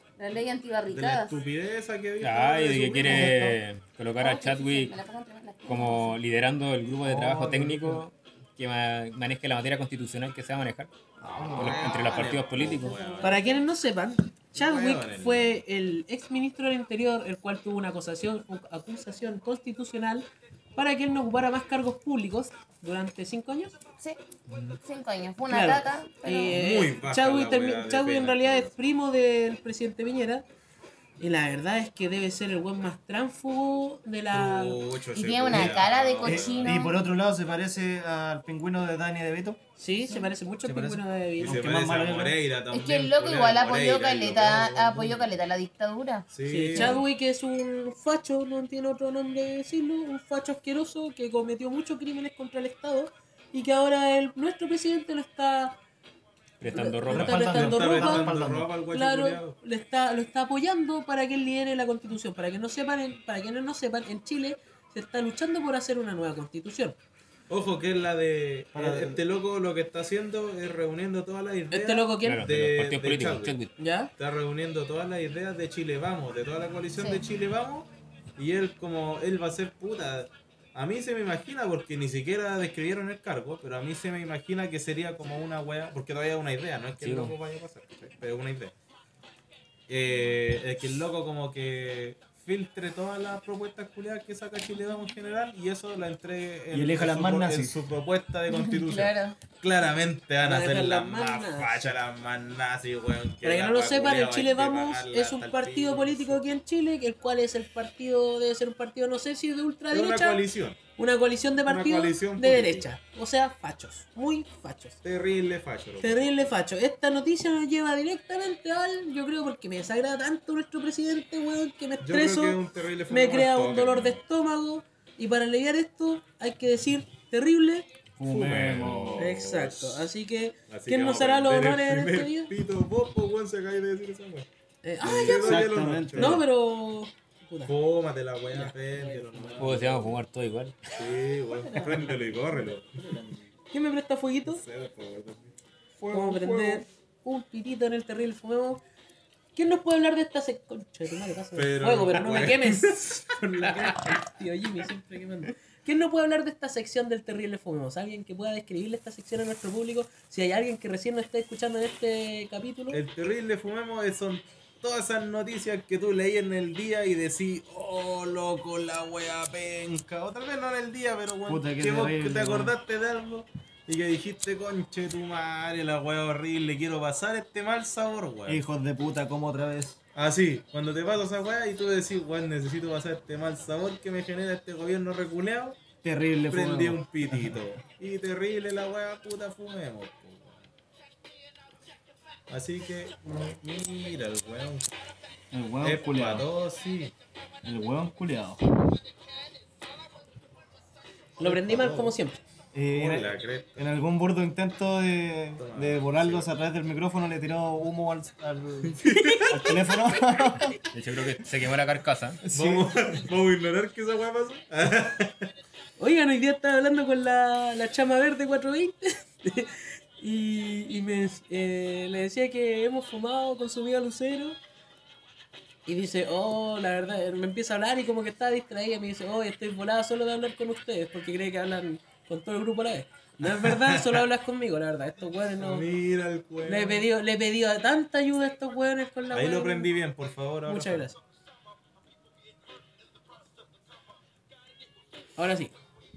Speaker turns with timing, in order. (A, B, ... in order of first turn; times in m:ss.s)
0:00.2-0:01.4 A
0:00.9-0:03.4 B
0:02.2-0:05.0 C
0:03.0-0:03.6 D
0:04.2-0:06.2 A
0:05.6-0:10.9 C
0:07.0-0:08.0 D
0:11.3-0:11.8 D
0:11.5-0:13.0 C
0:11.5-0:13.5 B
0:12.7-0:13.5 A
0:13.2-0:23.8 E
0:14.5-0:15.6 B
0:24.8-0:26.6 A
0:25.5-0:30.4 E
0:26.5-0:28.7 B
0:31.2-0:34.8 E
0:34.3-0:36.8 B
0:35.1-0:37.0 A
0:36.2-0:39.6 D
0:39.8-0:41.6 E
0:40.6-0:42.4 D
0:41.4-0:45.3 B
0:42.7-0:46.2 A
0:46.3-0:47.0 B
0:46.4-0:55.8 E
0:56.6-0:57.6 C
0:56.7-0:58.3 E
0:57.1-0:58.7 D
0:57.5-0:59.6 B
0:58.9-1:07.0 E
1:07.5-1:13.6 B
1:08.7-1:09.2 D
1:11.7-1:12.4 E
1:12.2-1:13.7 C
1:13.8-1:14.1 E
1:14.2-1:28.7 B
1:17.0-1:17.2 A
1:27.0-1:27.3 C
1:29.9-1:46.4 B
1:36.7-1:37.8 D
1:38.5-1:39.3 A
1:40.4-1:41.9 E
1:43.4-1:50.4 E
1:49.9-1:50.8 B
1:51.0-1:55.0 E
1:51.6-1:52.9 B
1:55.0-1:56.5 B
1:56.0-2:07.9 E
2:02.0-2:04.2 B
2:08.2-2:09.3 D
2:08.4-2:10.0 B
2:08.5-2:09.0 C
2:09.2-2:12.5 E
2:10.7-2:14.5 B
2:14.8-2:17.7 E
2:15.0-2:16.4 D
2:15.0-2:16.4 B
2:17.6-2:20.2 B
2:18.5-2:19.7 E
2:19.6-2:20.8 C
2:20.9-2:23.0 B
2:21.6-2:22.1 E
2:22.3-2:23.4 D
2:23.7-2:24.6 E
2:24.4-2:26.8 B
2:26.1-2:28.8 E
2:29.6-2:43.0 E
2:31.5-2:33.7 B
2:42.9-2:58.6 B
2:51.5-2:52.7 D
2:58.5-3:00.0 D
3:00.1-3:05.8 B
3:06.0-3:07.7 D
3:06.5-3:10.6 B
3:12.5-3:14.9 B
3:15.5-3:16.4 D
3:15.8-3:17.1 B
3:17.6-3:18.6 D
3:21.4-3:22.4 E
3:21.4-3:22.1 B
3:22.7-3:30.8 D
3:22.9-3:23.8 B
3:25.6-3:26.5 B
3:29.0-3:29.5 B
3:29.1-3:30.6 E
3:30.9-3:32.4 C
3:32.4-3:32.9 D
3:32.5-3:35.5 B
3:36.0-3:44.6 E
3:45.8-3:55.9 E
3:53.6-3:54.2 B
3:55.6-3:57.1 B
3:56.6-3:59.9 E
3:59.3-4:01.1 B
4:00.6-4:01.2 E
4:05.4-4:05.7 E